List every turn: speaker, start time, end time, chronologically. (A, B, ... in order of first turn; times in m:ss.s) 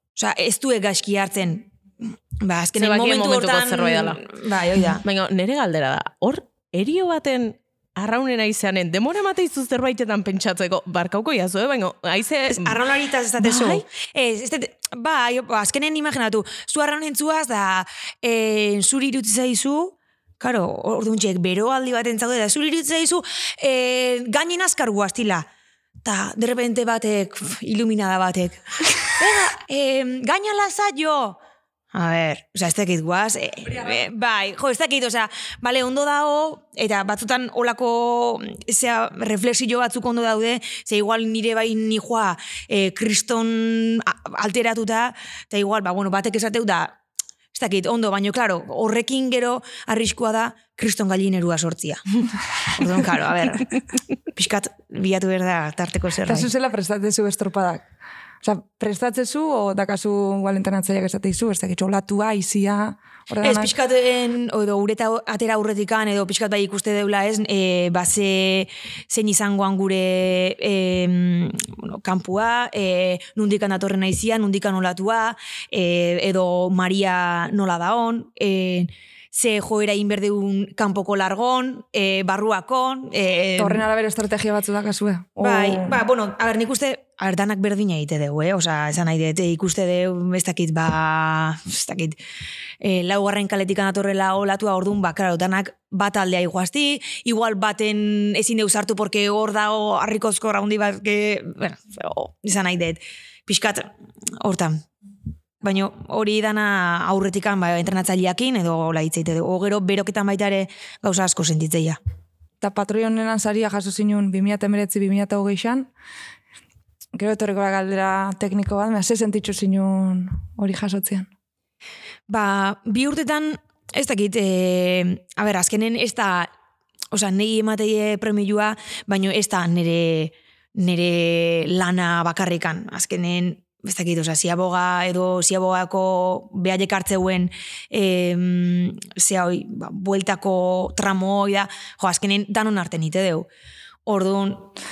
0:00.1-0:01.7 A
0:02.4-0:05.0 A
0:02.8-0:04.3 B
0:05.0-0:12.8 B
0:12.5-0:25.5 A
0:13.4-0:13.8 B
0:26.0-0:31.4 A
0:31.9-0:47.0 A
0:47.5-0:52.0 A
0:52.7-0:53.8 A
0:54.3-0:56.5 A
0:56.2-0:57.8 C
0:58.4-1:03.7 C
1:03.4-1:23.8 A
1:23.6-1:26.0 C
1:25.4-1:32.2 A
1:32.8-1:44.8 A
1:45.6-1:52.0 A
1:52.6-1:55.9 C
1:57.1-2:01.3 C
2:02.3-2:06.5 A
2:07.1-2:23.5 A
2:24.0-2:24.7 A